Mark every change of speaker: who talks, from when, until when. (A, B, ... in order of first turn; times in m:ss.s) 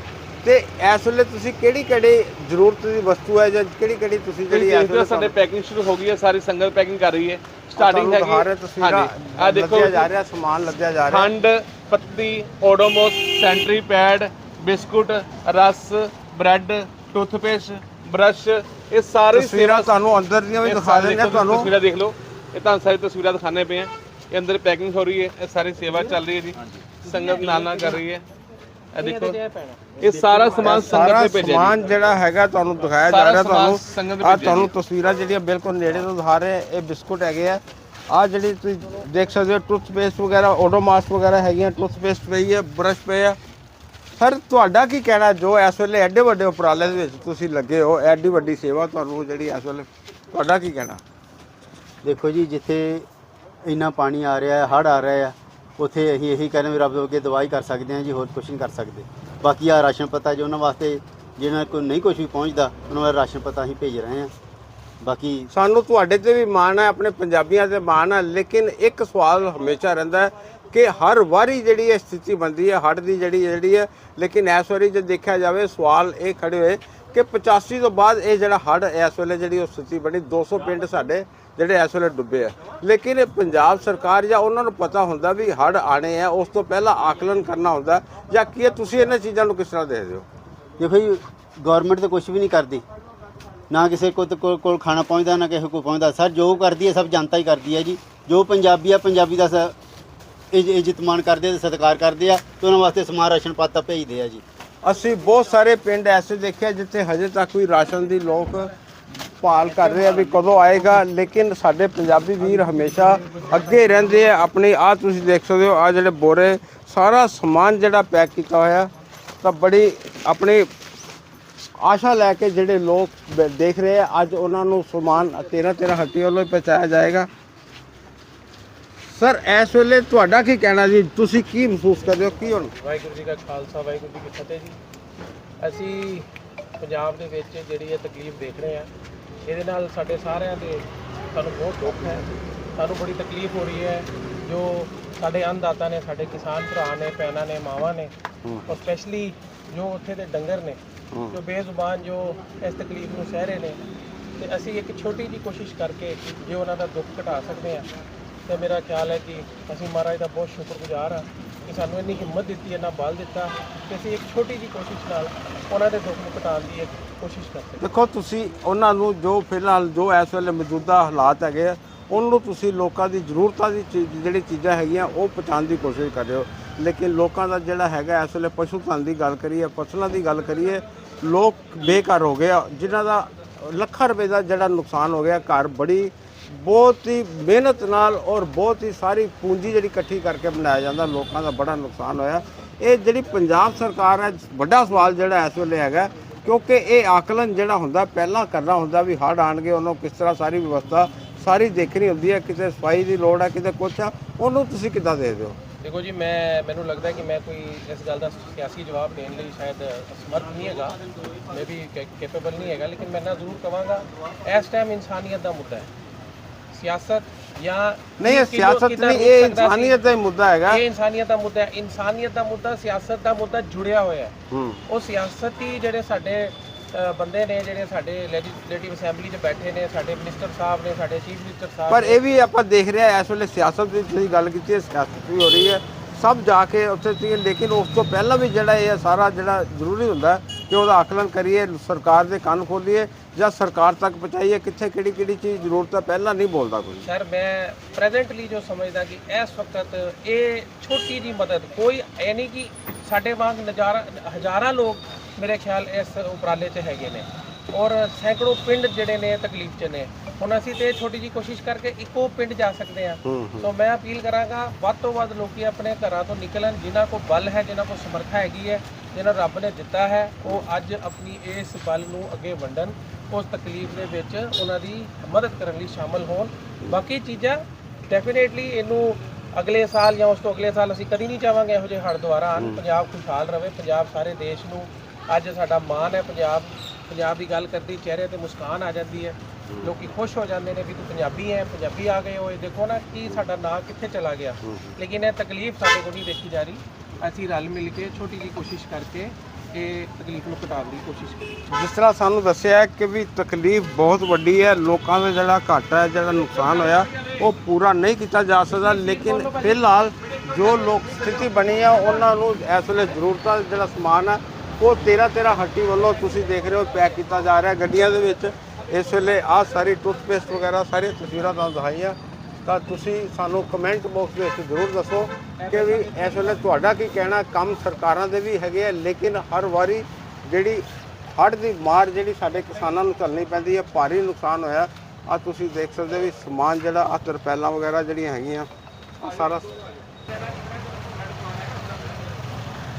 0:00.4-0:05.3 A
0:04.5-0:10.1 B
0:07.8-0:11.3 A
0:11.0-0:19.9 B
0:19.3-0:21.7 A
0:20.6-0:28.2 B
0:27.0-0:28.0 C
0:28.9-0:29.4 B
0:29.0-0:31.1 C
0:30.0-0:31.8 B
0:30.6-0:43.4 A
0:33.1-0:34.7 B
0:44.2-0:51.0 A
0:52.0-0:53.1 D
0:53.6-1:04.3 D
1:05.0-1:05.5 D
1:05.5-1:30.2 A
1:30.8-1:32.8 D
1:33.7-1:39.7 D
1:40.5-1:44.4 D
1:44.8-1:48.7 A
1:49.4-1:58.9 A
1:59.4-2:00.7 A
2:01.8-2:07.3 A
2:09.1-2:12.7 A
2:12.7-2:14.8 C
2:15.6-2:18.9 C
2:19.4-2:28.1 C
2:28.4-2:28.7 A
2:28.7-2:30.8 C
2:31.1-2:31.4 A
2:31.3-2:33.8 C
2:34.4-2:37.9 C
2:38.4-2:47.9 C
2:47.8-3:25.6 A
3:25.8-3:35.9 C
3:36.7-3:40.0 C
3:38.2-3:40.8 A
3:40.7-3:44.3 C
3:44.5-3:44.8 A
3:44.9-3:52.2 C
3:51.9-4:07.0 A
4:07.0-5:01.5 C
4:23.2-4:23.7 A
4:54.6-4:54.9 A
5:01.7-5:38.7 A
5:08.7-5:09.8 C
5:25.7-5:26.2 C
5:39.2-5:39.8 A